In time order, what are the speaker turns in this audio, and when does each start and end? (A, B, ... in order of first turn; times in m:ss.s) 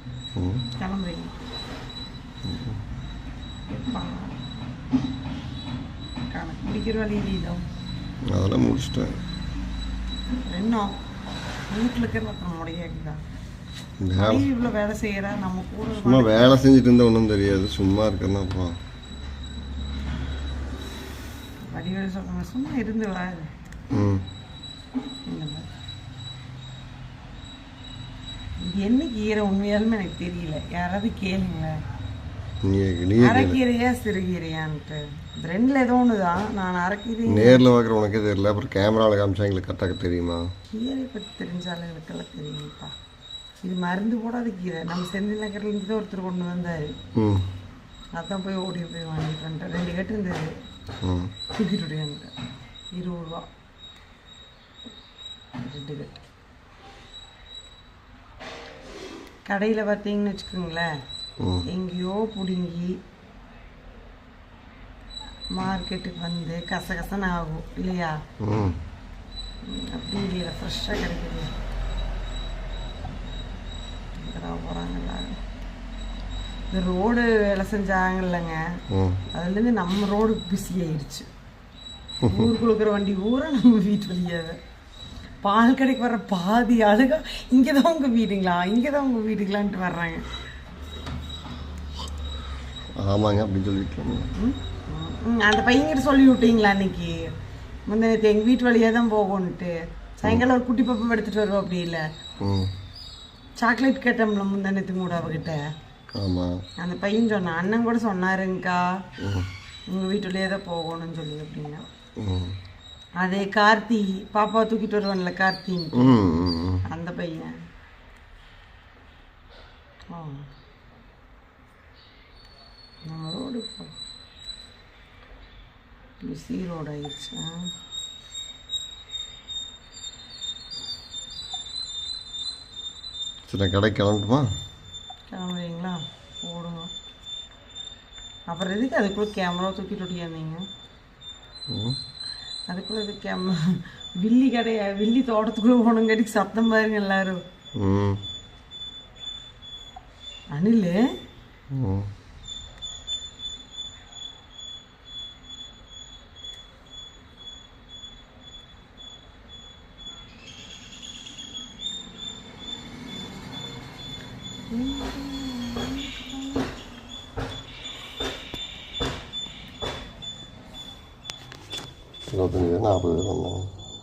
0:00.4-0:00.7 A
0:00.8-0:01.4 B
0:02.4-0:02.8 A
0:03.7-0:04.4 B
0:06.3-0:07.6 B
0:08.3-0:09.2 A
0:10.4-0:11.0 B
0:11.7-0:13.2 B
0:14.0-0:14.5 A
0:14.2-0:16.6 B
0:16.0-0:18.8 A
0:21.7-0:23.5 B
0:23.9-0:24.3 A
0:25.3-0:25.7 B
0:28.6-0:31.8 B
0:32.6-0:33.6 A
0:33.2-0:37.6 B
0:37.3-0:40.5 A
0:40.7-0:42.9 B
0:43.6-0:47.0 B
0:47.2-0:47.5 A
0:48.2-0:50.5 B
0:51.0-0:51.3 A
0:51.5-0:52.3 B
0:52.9-0:53.5 B
0:55.6-0:56.2 B
0:59.5-1:00.9 B
1:01.4-1:01.7 A
1:01.6-1:03.0 B
1:05.5-1:08.2 B
1:08.4-1:08.8 A
1:09.6-1:11.5 B
1:14.2-1:15.4 B
1:16.7-1:18.6 B
1:18.9-1:19.2 A
1:19.3-1:21.3 B
1:22.2-1:22.5 A
1:22.2-1:24.6 B
1:25.4-1:30.2 B
1:33.0-1:34.3 A
1:34.4-1:37.3 B
1:37.9-1:42.0 B
1:42.4-1:42.7 A
1:43.6-1:45.6 B
1:46.2-1:46.6 A
1:46.8-1:48.9 B
1:49.2-1:49.5 A
1:49.9-1:51.8 B
1:52.2-1:52.6 A
1:53.2-1:56.2 B
1:56.0-1:56.8 A
1:56.9-1:57.5 B
2:00.1-2:00.5 B
2:03.1-2:03.9 B
2:06.2-2:07.7 B
2:13.5-2:14.5 A
2:15.3-2:16.9 B
2:18.5-2:20.6 B
2:21.7-2:22.0 A
2:22.7-2:27.4 B
2:27.8-2:28.2 A
2:30.5-2:31.0 B
2:31.7-2:32.1 A
2:44.7-2:46.7 B
2:52.3-2:53.7 A